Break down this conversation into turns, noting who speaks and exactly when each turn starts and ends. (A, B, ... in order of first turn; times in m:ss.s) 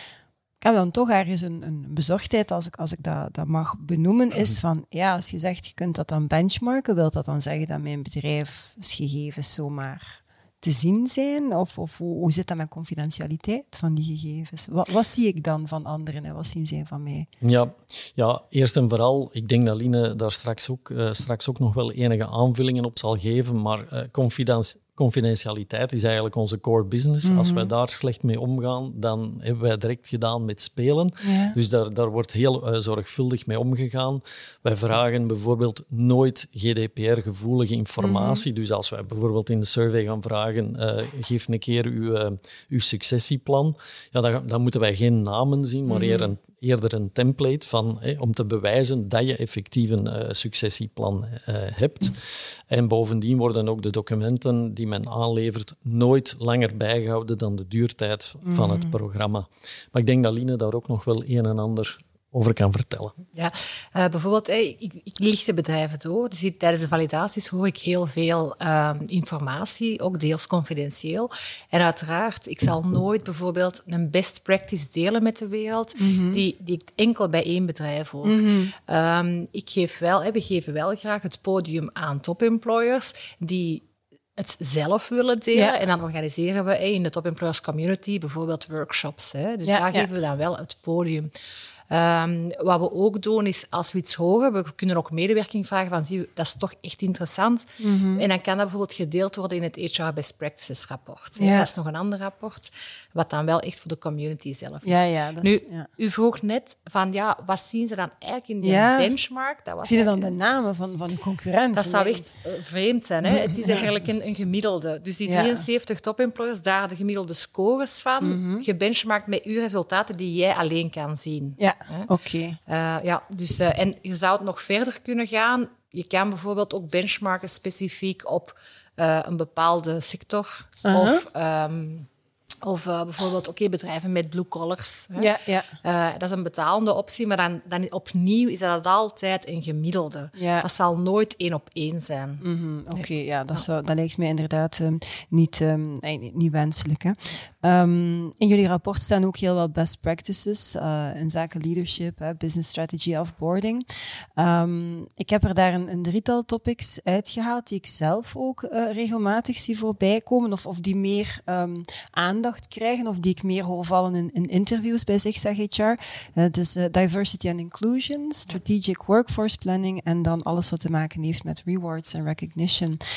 0:00.6-0:17.3 A
0:17.4-1:03.2 B
0:27.2-0:27.7 A
0:31.2-0:31.6 A
0:38.0-0:38.4 A
0:45.9-0:46.3 A
0:58.4-0:58.9 A
1:03.3-1:23.8 C
1:16.0-1:16.4 A
1:18.2-1:18.7 A
1:24.4-1:31.3 C
1:29.7-1:30.1 A
1:31.9-1:50.3 C
1:37.8-1:38.2 A
1:41.4-1:41.7 A
1:44.8-1:45.9 A
1:48.6-1:49.1 A
1:49.8-1:52.3 A
1:51.7-2:02.1 C
1:53.2-1:53.8 A
1:55.3-1:55.6 A
1:58.2-1:58.6 A
2:01.6-2:02.6 A
2:02.7-2:12.1 C
2:10.8-2:11.2 A
2:12.6-2:15.3 C
2:15.2-2:15.7 A
2:15.8-2:22.4 C
2:20.4-2:20.6 A
2:22.4-2:53.0 A